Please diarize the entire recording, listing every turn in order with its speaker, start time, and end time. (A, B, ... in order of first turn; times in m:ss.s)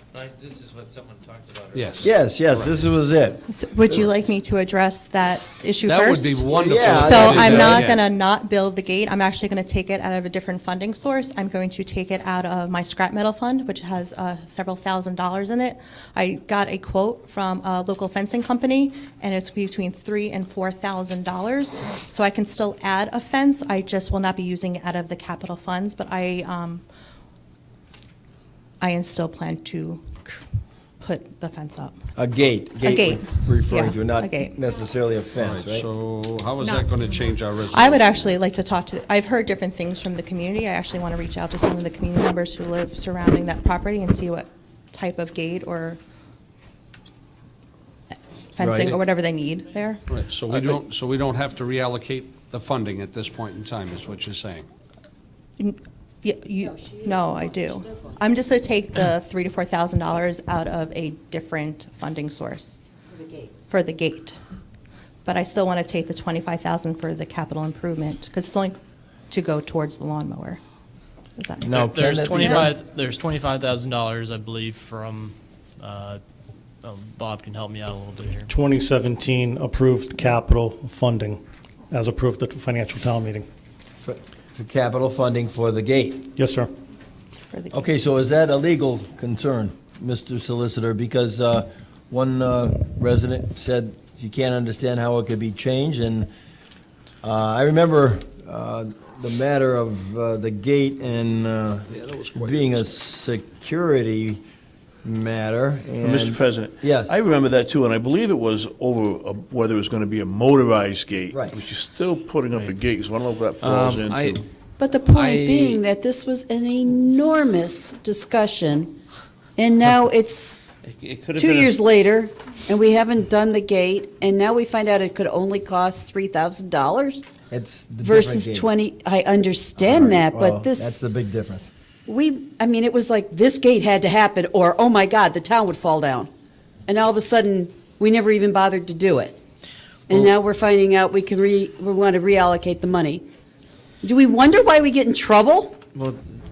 0:00.1-0:02.1 A
0:01.7-0:02.8 B
0:02.0-0:03.4 C
0:03.5-0:26.8 D
0:05.8-0:08.0 B
0:06.5-0:07.9 C
0:28.8-0:30.4 D
0:31.0-0:32.0 D
0:32.2-0:35.9 C
0:32.8-0:34.5 D
0:35.4-0:38.2 B
0:36.6-0:46.0 D
0:48.5-0:50.0 D
0:48.6-0:49.0 C
0:50.1-0:54.7 B
0:55.6-1:02.8 D
0:56.6-0:58.2 E
1:03.1-1:03.5 E
1:03.7-1:04.4 D
1:05.2-1:08.8 D
1:09.3-1:10.6 D
1:11.4-1:12.7 D
1:11.6-1:12.7 C
1:11.7-1:16.2 F
1:16.8-1:18.5 F
1:18.5-1:23.5 G
1:24.0-1:26.3 C
1:26.4-1:26.7 G
1:27.5-1:27.9 D
1:27.7-1:36.3 C
1:37.2-1:44.4 C
1:42.2-1:43.0 H
1:45.0-1:47.1 C
1:46.0-1:54.4 H
1:51.3-1:51.6 C
1:53.6-1:54.4 A
1:54.8-1:59.0 E
1:55.1-1:55.8 A
1:59.6-2:00.6 E
2:00.8-2:01.7 A
2:01.4-2:07.3 E
2:07.5-2:08.7 C
2:08.0-2:11.0 E
2:09.8-2:11.7 C
2:12.0-2:16.3 E
2:16.9-2:19.4 E
2:20.1-2:23.2 E
2:24.0-2:25.8 E
2:25.9-2:26.2 A